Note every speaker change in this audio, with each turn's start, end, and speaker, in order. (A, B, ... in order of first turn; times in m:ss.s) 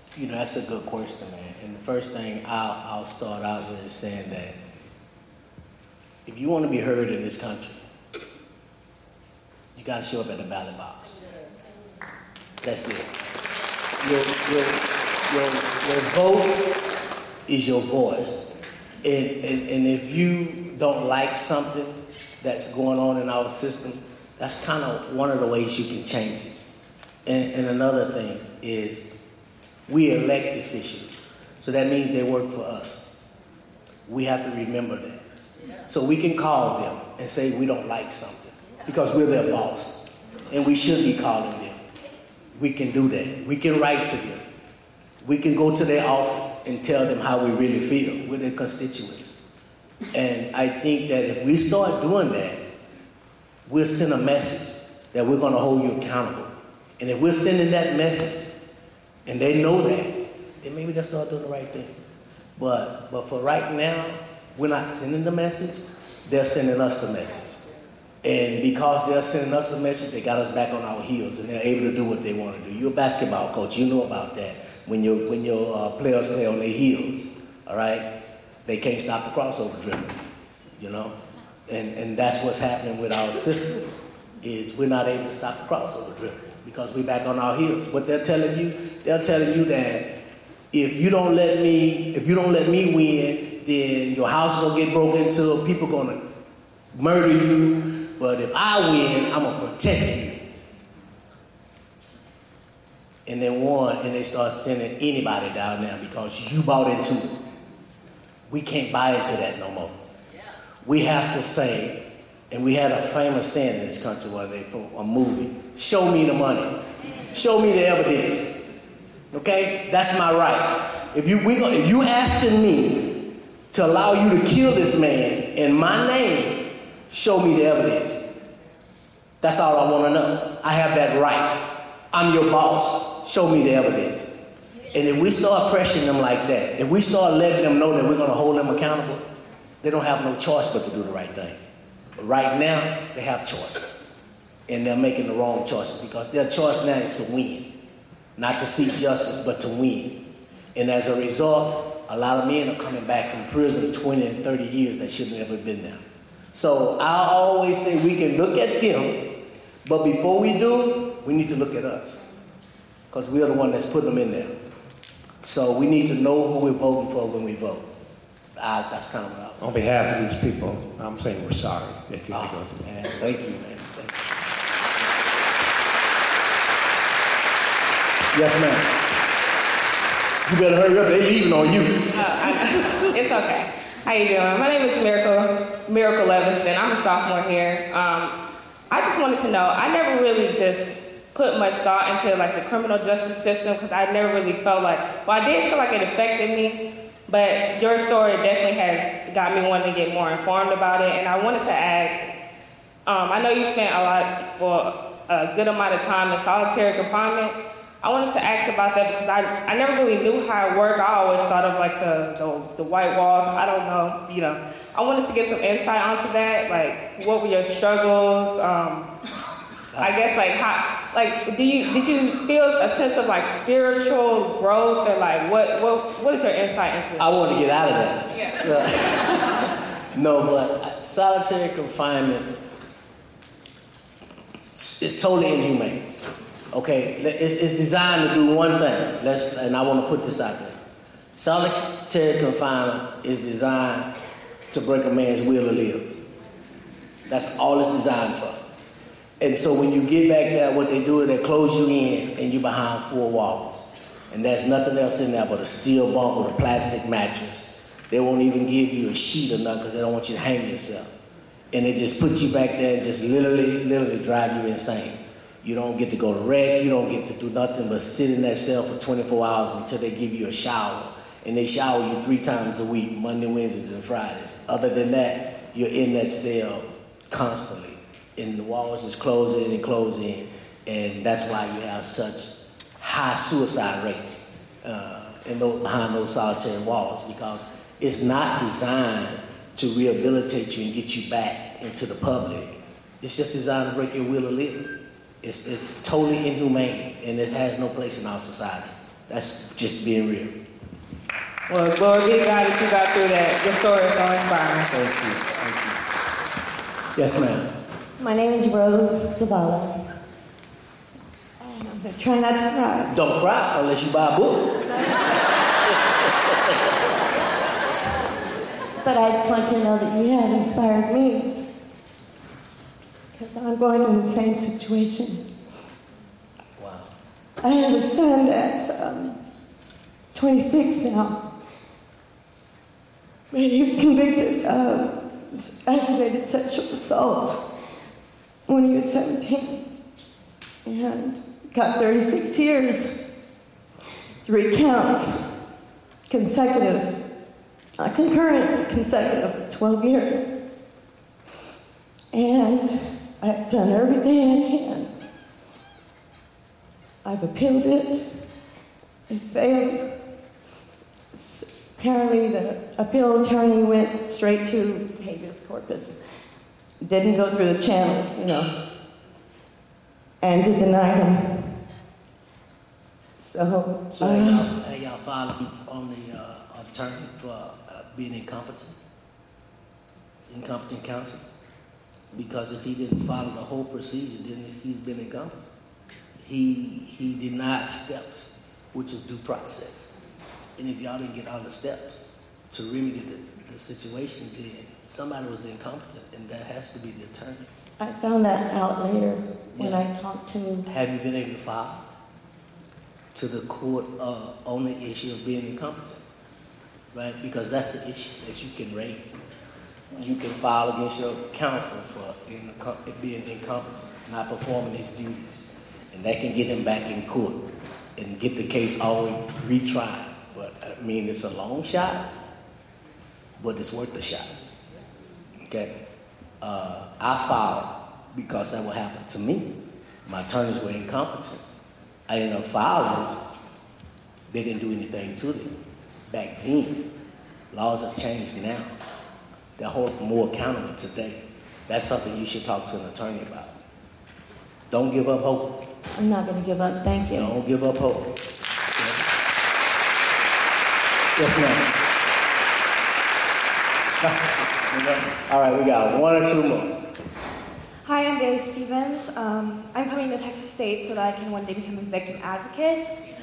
0:00.1-0:04.6 A
0:06.2-0:07.8 A
0:09.7-0:11.2 A
0:12.6-0:13.1 A
0:14.0-0:16.8 A
0:17.5-0:18.5 A
0:19.0-0:26.6 A
0:27.2-0:29.1 A
0:29.9-0:33.1 A
0:34.1-0:35.2 A
0:35.8-0:41.8 A
0:42.5-0:44.4 A
0:45.2-0:49.4 A
0:50.1-0:52.6 A
0:53.6-0:58.5 A
0:59.2-1:07.6 A
1:08.2-1:18.1 A
1:18.6-1:20.2 A
1:20.8-1:21.1 A
1:21.7-1:30.2 A
1:30.7-1:36.2 A
1:36.9-1:40.4 A
1:43.2-1:47.4 A
1:48.5-1:50.0 A
1:50.8-1:58.6 A
1:59.3-2:08.3 A
2:09.4-2:14.3 A
2:14.9-2:19.2 A
2:19.8-2:21.6 A
2:22.2-2:24.0 A
2:24.7-2:27.7 A
2:28.4-2:42.2 A
2:43.1-2:44.6 A
2:45.4-2:47.9 A
2:48.6-2:49.8 A
2:49.6-2:52.8 B
2:52.3-2:54.2 A
2:58.3-2:59.0 A
3:00.4-3:03.0 A
3:02.1-3:08.4 C
3:08.9-3:22.4 C
3:23.0-3:39.1 C
3:40.0-3:47.3 C
3:47.2-3:52.5 A
3:48.4-3:48.7 C
3:54.7-3:56.1 A
3:56.7-4:00.8 A
4:01.3-4:04.1 A
4:04.7-4:06.2 A
4:07.3-4:08.6 A
4:09.4-4:21.1 A
4:21.7-5:00.6 A
5:01.7-5:04.9 C
5:04.9-5:05.9 A
5:07.1-5:07.7 A
5:08.2-5:10.0 D
5:11.6-5:13.1 D
5:13.1-5:16.7 A
5:19.0-5:21.7 D
5:23.3-5:25.5 D
5:26.8-5:27.1 A
5:27.6-5:29.4 D
5:30.3-5:31.6 D
5:33.5-5:37.8 D
5:38.7-5:40.0 D
5:40.8-5:43.3 D
5:44.4-5:45.7 D
5:46.3-5:47.3 D
5:48.0-5:50.6 D
5:52.3-5:55.2 D
5:57.2-5:58.5 D
5:59.3-6:00.2 D
6:01.3-6:06.3 D
6:07.0-6:08.8 D
6:10.4-6:11.8 D
6:13.4-6:14.7 D
6:14.1-6:19.0 A
6:20.5-6:21.5 A
6:22.3-6:25.7 A
6:26.4-6:30.1 A
6:30.8-6:37.7 A
6:38.0-6:40.8 D
6:39.8-6:40.1 A
6:40.8-6:42.0 A
6:43.3-6:46.2 A
6:47.1-6:49.4 A
6:50.1-6:57.6 A
6:58.2-7:02.3 A
7:03.6-7:04.5 A
7:05.6-7:05.9 A
7:06.6-7:11.6 A
7:12.3-7:13.4 A
7:14.5-7:15.7 A
7:16.3-7:17.1 A
7:17.7-7:18.9 A
7:19.8-7:23.7 A
7:24.9-7:25.8 A
7:26.2-7:27.5 D
7:27.3-7:28.3 A
7:31.4-7:31.9 A
7:34.2-7:37.0 A
7:38.0-7:43.0 E